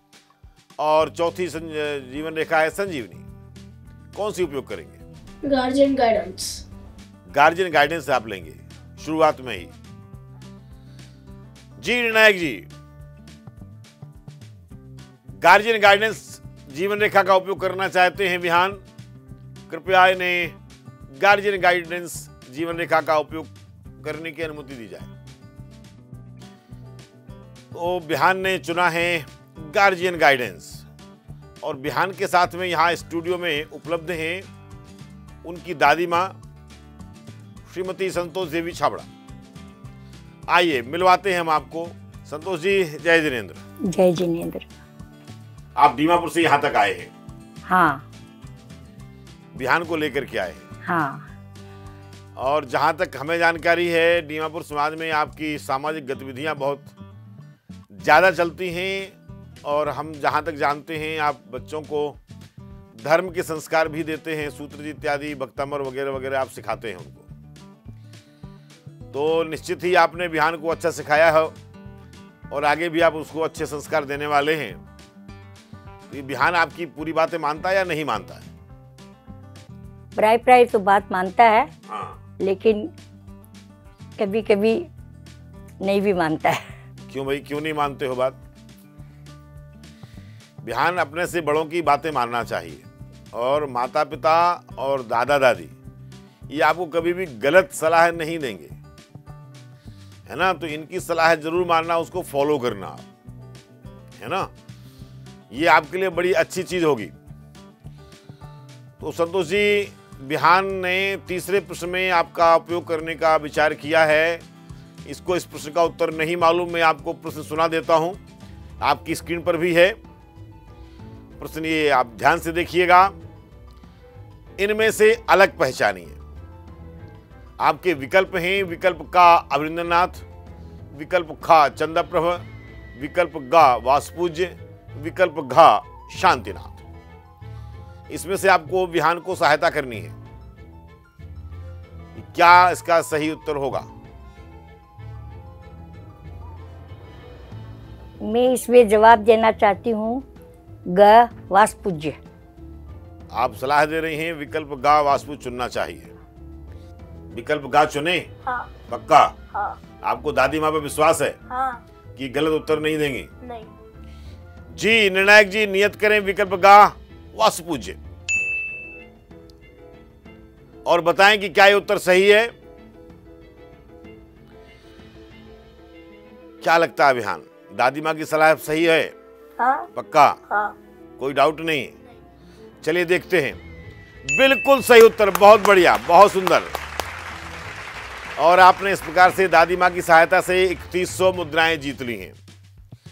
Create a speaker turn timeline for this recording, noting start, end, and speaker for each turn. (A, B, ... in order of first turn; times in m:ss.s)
0:00.8-0:03.2 A
0:04.1-0:05.0 A
0:05.4-0:06.6 B
0:07.3-0:09.7 A
0:11.8-0:12.7 A
0:15.4-0:18.8 A
0:19.7-0:20.6 A
0:21.1-0:25.1 A
0:27.7-0:30.8 A
0:31.6-0:34.5 A
0:35.4-0:36.4 A
0:37.7-0:39.1 A
0:40.5-0:43.6 A
0:43.9-0:44.7 C
0:45.8-0:47.1 A
0:47.6-0:48.0 C
0:49.5-0:50.6 A
0:50.8-0:51.3 C
0:52.4-0:56.9 A
0:58.0-1:02.2 A
1:03.0-1:07.3 A
1:09.1-1:11.5 A
1:12.5-1:14.8 A
1:16.1-1:18.4 A
1:20.1-1:21.7 C
1:21.9-1:22.2 A
1:22.4-1:22.9 C
1:24.2-1:24.9 C
1:25.8-1:26.6 C
1:27.1-1:28.4 A
1:30.6-1:35.7 A
1:36.5-1:38.8 A
1:40.3-1:43.0 A
1:44.2-1:44.5 A
1:45.5-1:47.1 A
1:49.0-1:54.4 A
1:55.0-1:58.2 A
1:58.8-2:00.0 A
2:01.4-2:03.1 A
2:04.6-2:06.2 A
2:07.6-2:10.2 A
2:10.9-2:12.4 A
2:13.0-2:16.8 A
2:18.1-2:20.1 A
2:22.2-2:23.9 A
2:28.2-2:30.2 C
2:30.9-2:32.2 C
2:33.3-2:36.1 A
2:37.3-2:38.3 A
2:38.9-2:39.4 A
2:40.0-2:41.4 A
2:41.5-2:41.8 B
2:42.2-2:43.3 A
2:43.4-2:43.7 B
2:44.7-2:48.0 A
2:50.8-2:52.5 A
2:56.6-2:59.1 A
2:59.6-2:59.9 B
2:59.9-3:00.4 A
3:01.2-3:02.0 A
3:02.8-3:03.6 A
3:04.2-3:06.7 A
3:08.4-3:12.4 A